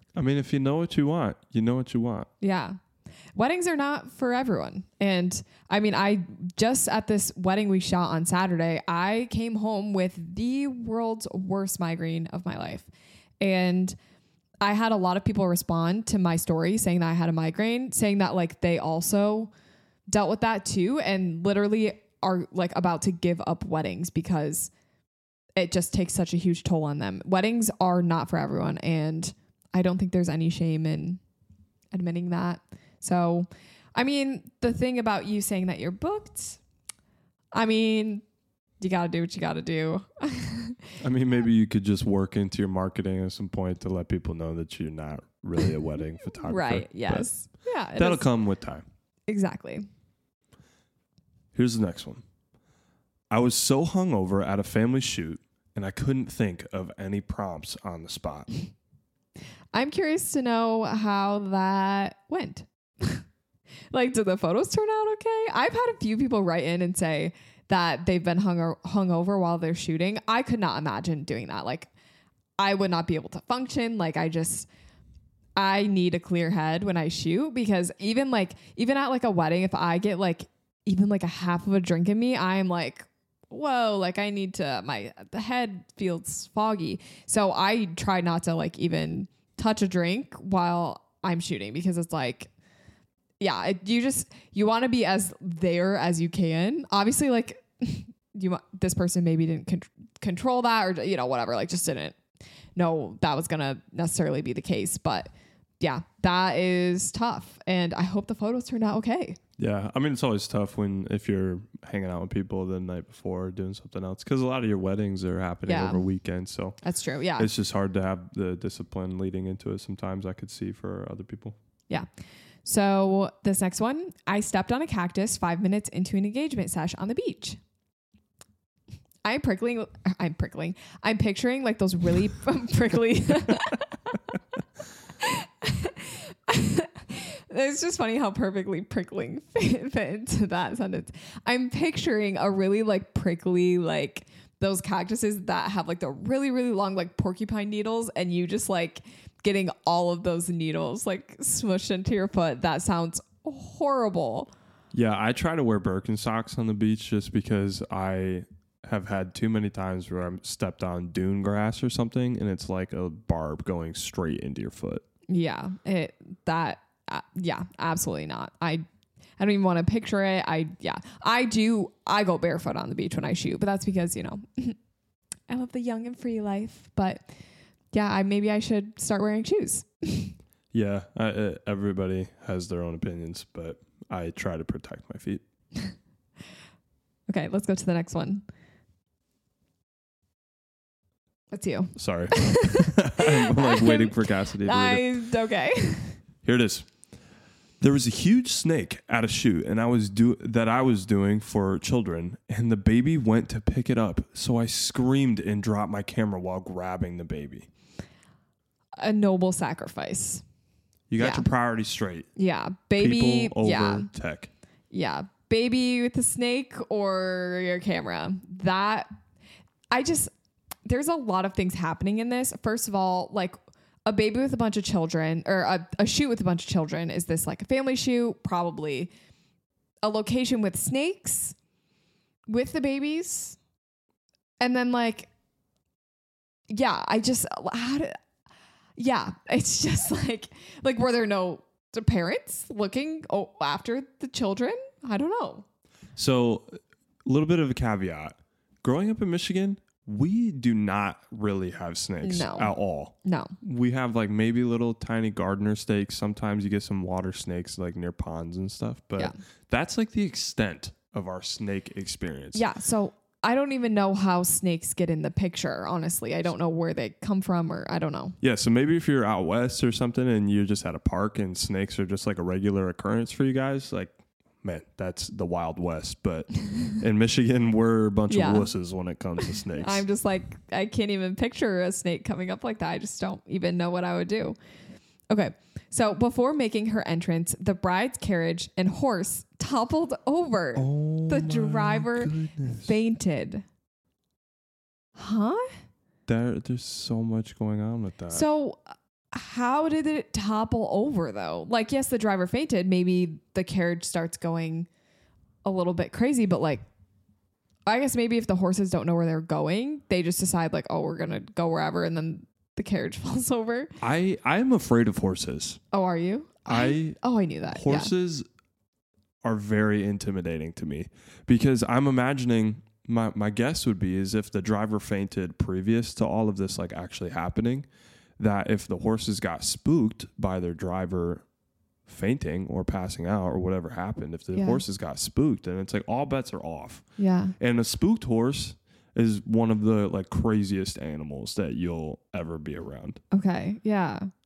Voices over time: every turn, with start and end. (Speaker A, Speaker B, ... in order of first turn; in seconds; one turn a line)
Speaker A: 0.1-2.3
Speaker B: 2.4-2.8
Speaker B: 3.4-12.9
Speaker B: 13.4-14.0
Speaker B: 14.6-19.5
Speaker B: 20.1-24.7
Speaker B: 25.6-31.2
Speaker B: 31.9-36.6
Speaker B: 37.5-38.2
Speaker B: 38.8-40.8
Speaker A: 41.0-47.3
Speaker B: 46.5-48.3
Speaker A: 48.0-48.9
Speaker B: 49.3-49.9
Speaker A: 51.5-52.2
Speaker A: 53.3-58.5
Speaker B: 59.7-63.2
Speaker B: 63.9-71.9
Speaker B: 72.6-74.7
Speaker B: 75.6-92.5
Speaker B: 93.4-102.2
Speaker B: 102.8-105.3
Speaker B: 105.8-109.4
Speaker A: 109.6-116.8
Speaker B: 115.7-116.0
Speaker B: 116.8-117.5
Speaker A: 117.4-121.6
Speaker B: 122.6-127.6
Speaker B: 129.2-134.3
Speaker B: 135.2-154.5
Speaker A: 154.9-165.0
Speaker B: 165.3-168.8
Speaker B: 169.4-174.8
Speaker B: 175.5-177.3
Speaker B: 177.9-180.3
Speaker A: 180.7-185.4
Speaker B: 187.3-188.4
Speaker B: 191.5-196.2
Speaker A: 191.9-195.1
Speaker A: 196.4-196.9
Speaker A: 197.8-207.7
Speaker B: 209.0-210.4
Speaker A: 211.1-212.3
Speaker B: 211.2-211.5
Speaker B: 212.4-214.1
Speaker A: 213.0-214.5
Speaker B: 214.9-219.1
Speaker B: 219.9-220.3
Speaker B: 220.9-229.1
Speaker B: 230.0-231.6
Speaker B: 232.5-233.6
Speaker B: 234.6-235.3
Speaker B: 236.7-238.2
Speaker B: 239.0-245.7
Speaker A: 246.2-262.6
Speaker B: 252.2-253.5
Speaker B: 262.6-268.4
Speaker A: 268.4-280.1
Speaker B: 278.3-278.7
Speaker B: 279.8-284.6
Speaker B: 285.3-293.6
Speaker A: 290.8-292.9
Speaker B: 295.2-295.8
Speaker A: 296.3-298.5
Speaker B: 298.3-304.9
Speaker B: 305.6-306.8
Speaker B: 307.9-313.9
Speaker A: 314.0-315.8
Speaker B: 315.9-318.1
Speaker A: 316.7-318.5
Speaker A: 319.4-327.9
Speaker A: 328.4-331.4
Speaker A: 332.1-337.0
Speaker B: 334.5-334.8
Speaker B: 337.2-337.6
Speaker A: 337.6-343.2
Speaker B: 343.3-344.3